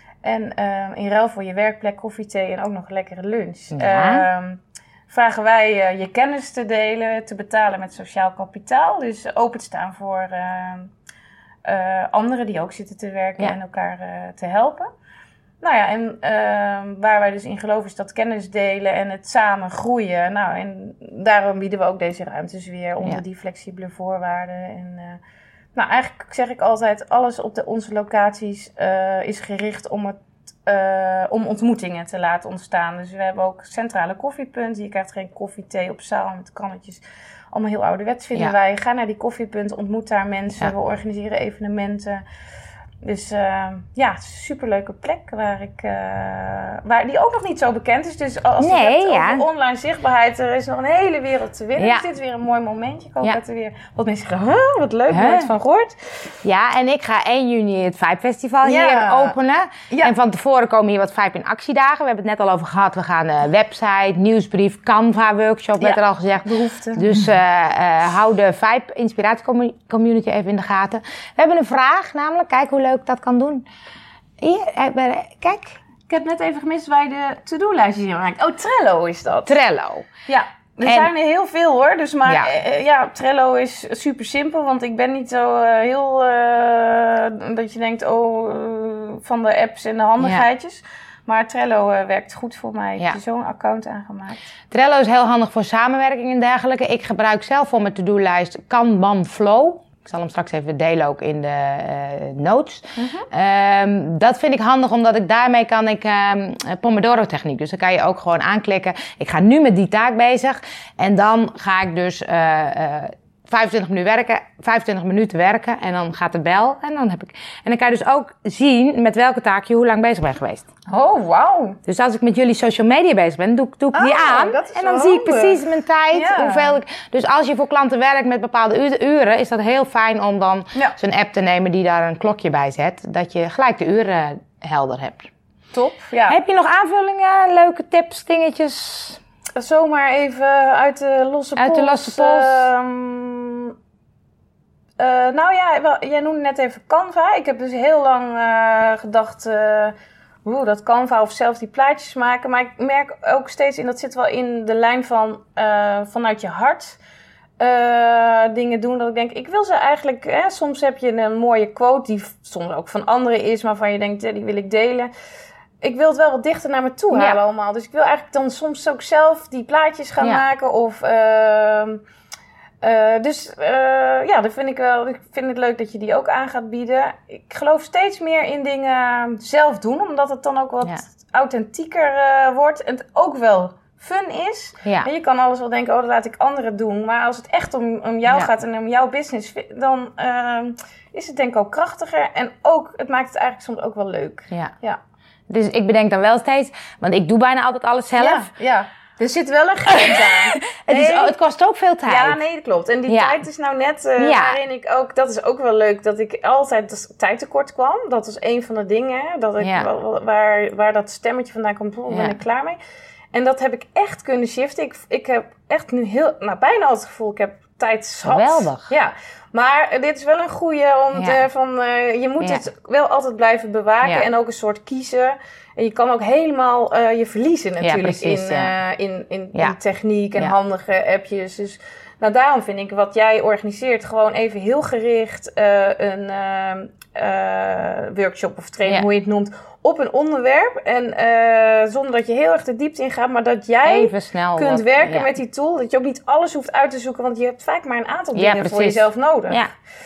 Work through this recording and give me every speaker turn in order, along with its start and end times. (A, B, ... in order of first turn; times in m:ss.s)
0:00.2-0:10.9 A
0:03.7-0:04.2 B
0:11.6-0:14.9 A
0:15.6-0:25.2 A
0:25.7-0:42.2 A
0:43.0-0:56.1 A
0:48.6-0:49.4 B
0:51.8-0:52.0 B
0:55.1-0:55.5 B
0:56.4-1:13.6 B
0:58.6-0:59.3 A
1:05.8-1:07.1 A
1:14.4-1:15.8 B
1:16.1-1:19.6 A
1:19.4-1:20.1 B
1:20.3-1:34.4 A
1:22.2-1:22.5 B
1:30.2-1:30.4 B
1:34.7-2:00.7 B
1:43.0-1:43.3 A
2:00.9-2:01.8 A
2:01.9-2:15.3 B
2:03.9-2:06.8 A
2:15.7-2:16.4 A
2:16.3-2:19.2 B
2:19.6-2:23.7 A
2:21.6-2:22.7 B
2:25.0-2:37.0 A
2:37.6-2:45.1 A
2:45.8-2:52.0 A
2:47.1-2:47.4 B
2:52.8-3:15.0 A
3:15.5-3:18.5 B
3:18.2-3:21.3 A
3:20.6-3:22.4 B
3:22.0-3:32.8 A
3:23.1-3:23.4 B
3:24.2-3:24.6 B
3:29.6-3:29.9 B
3:32.1-3:32.4 B
3:33.3-4:09.7 A
3:38.2-3:38.9 B
3:41.1-3:41.4 B
3:42.4-3:42.6 B
3:47.8-3:48.7 B
4:03.8-4:05.3 B
4:08.3-4:09.7 B